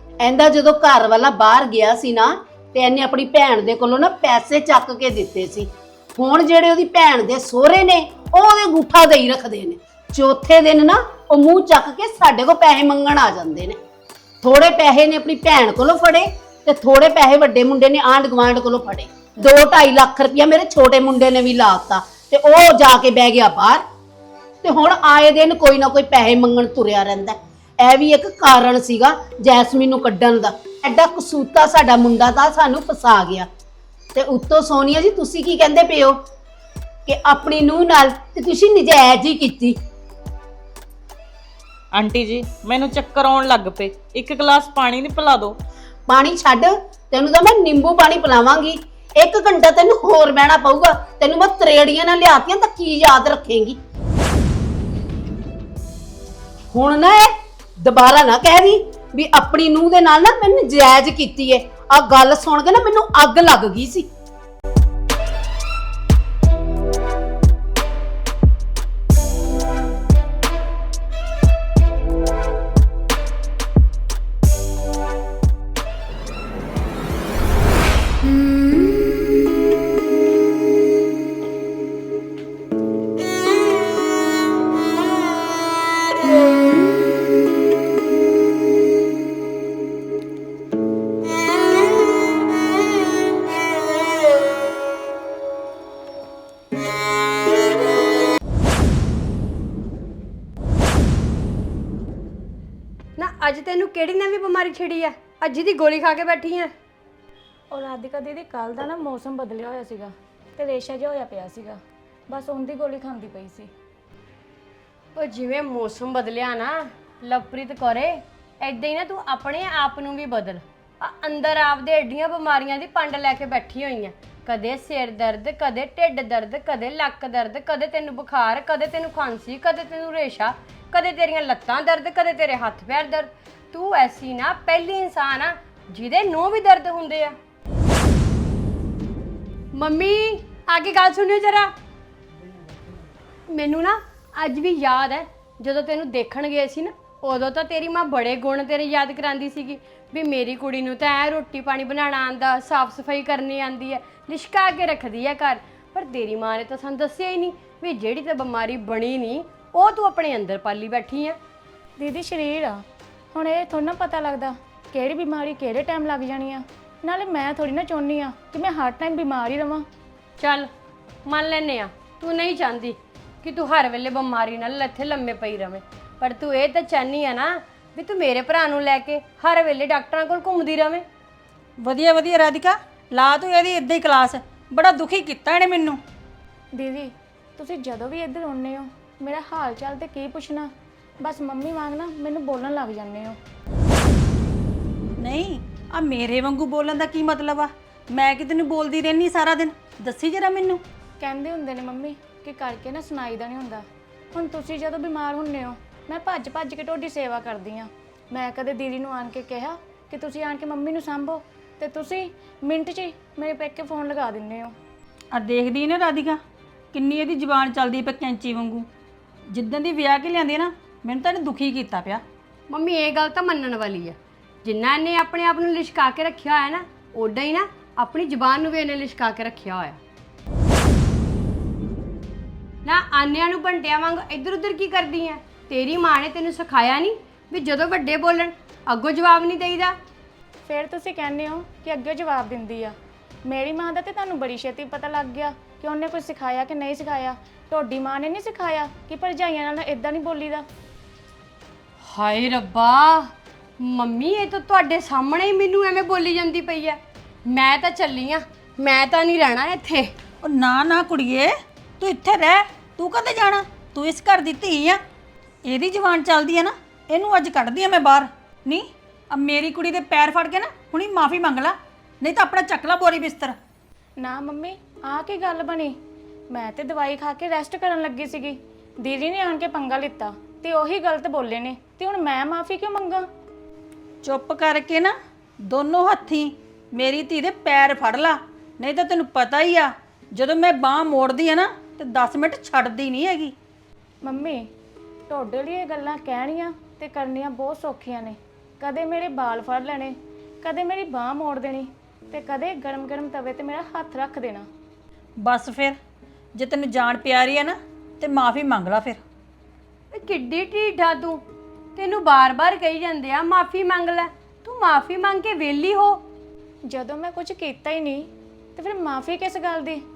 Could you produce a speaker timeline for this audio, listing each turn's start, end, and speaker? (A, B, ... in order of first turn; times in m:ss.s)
0:00.2-0:13.8 A
0:14.4-0:23.8 A
0:24.6-0:33.5 A
0:34.2-0:36.2 A
0:37.1-0:39.8 A
0:41.9-0:45.6 B
0:46.1-0:53.8 A
0:56.7-1:04.1 A
1:43.2-1:46.7 C
1:47.7-1:53.7 D
1:55.2-2:17.4 C
2:19.7-2:21.7 C
2:23.5-2:41.4 C
2:42.0-2:42.8 D
2:43.3-2:49.9 D
2:50.4-2:50.7 C
2:51.3-3:01.0 C
3:01.8-3:06.0 E
3:06.8-3:10.7 D
3:11.2-3:13.4 D
3:15.2-3:20.8 E
3:21.2-3:34.8 D
3:35.3-3:36.4 E
3:36.9-3:38.9 E
3:39.5-3:42.2 E
3:42.7-3:50.0 C
3:52.8-4:00.0 C
4:00.6-4:03.0 D
4:03.5-4:10.6 D
4:12.0-4:20.1 C
4:20.4-4:25.0 E
4:25.6-4:33.6 E
4:34.2-4:36.0 D
4:36.5-4:43.3 D
4:44.2-4:53.5 E
4:54.2-4:54.6 D
4:55.3-5:04.7 D
5:05.4-5:06.0 E
5:06.6-5:09.2 E
5:10.1-5:11.4 C
5:12.0-5:16.2 C
5:16.9-5:20.0 D